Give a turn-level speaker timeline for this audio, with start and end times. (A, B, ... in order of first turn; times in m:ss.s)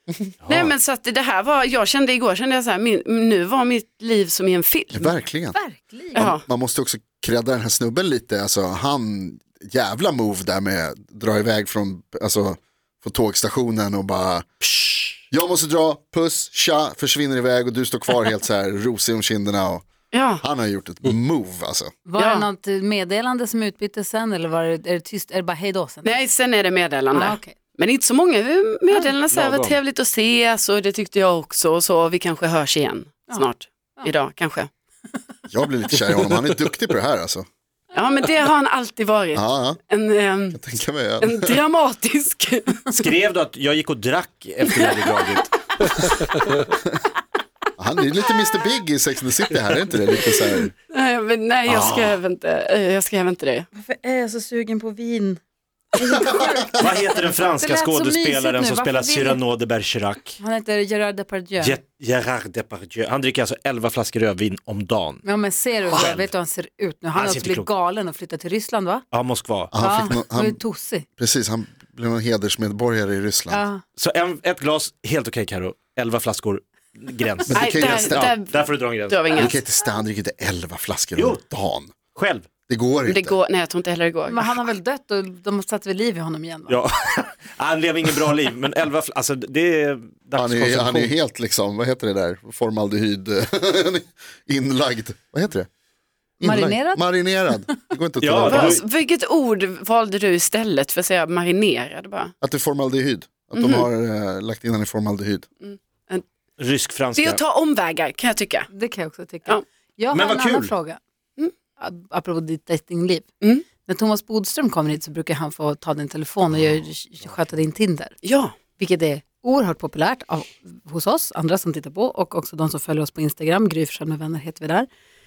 0:00.4-0:00.7 A
0:00.4-0:05.1 B
0:04.9-0:05.6 C
0:05.5-0:06.3 D
0:06.1-0:14.5 C
0:06.2-0:06.4 B
0:15.3-0:19.8 C
0:20.1-0:20.4 B
0:20.4-0:21.9 C
0:22.0-0:26.2 D
0:22.2-0:22.4 B
0:26.0-0:34.7 B
0:27.1-0:27.5 D
0:29.3-0:29.8 A
0:35.5-0:37.4 C
0:37.9-0:40.6 B
0:39.3-0:39.8 C
0:40.5-0:41.5 C
0:41.2-0:43.0 B
0:42.9-0:46.3 A
0:47.8-0:50.7 C
0:50.7-0:53.7 B
0:51.7-0:52.2 A
0:53.8-0:55.4 D
0:56.0-0:59.4 D
0:56.8-1:00.4 A
1:00.4-1:01.8 D
1:01.6-1:05.2 A
1:05.2-1:09.0 D
1:05.8-1:06.3 A
1:07.1-1:07.7 A
1:09.1-1:09.7 A
1:09.7-1:10.6 C
1:09.8-1:11.0 D
1:11.2-1:13.6 C
1:13.5-1:13.8 D
1:14.0-1:19.2 A
1:17.5-1:18.3 C
1:17.6-1:19.6 B
1:19.3-1:21.9 C
1:22.1-1:22.5 A
1:22.7-1:23.4 C
1:23.1-1:24.5 B
1:24.3-1:26.8 D
1:26.7-1:31.1 A
1:30.4-1:35.7 C
1:36.4-1:38.7 C
1:36.4-1:37.3 D
1:38.2-1:38.8 A
1:38.4-1:42.3 B
1:42.4-1:45.4 C
1:43.6-1:43.9 B
1:45.6-1:46.2 B
1:46.6-1:47.4 A
1:47.1-1:48.7 B
1:48.7-1:51.0 D
1:50.1-1:50.7 A
1:51.8-1:53.2 D
1:53.8-1:58.2 D
1:58.2-1:58.5 B
1:58.8-2:04.9 D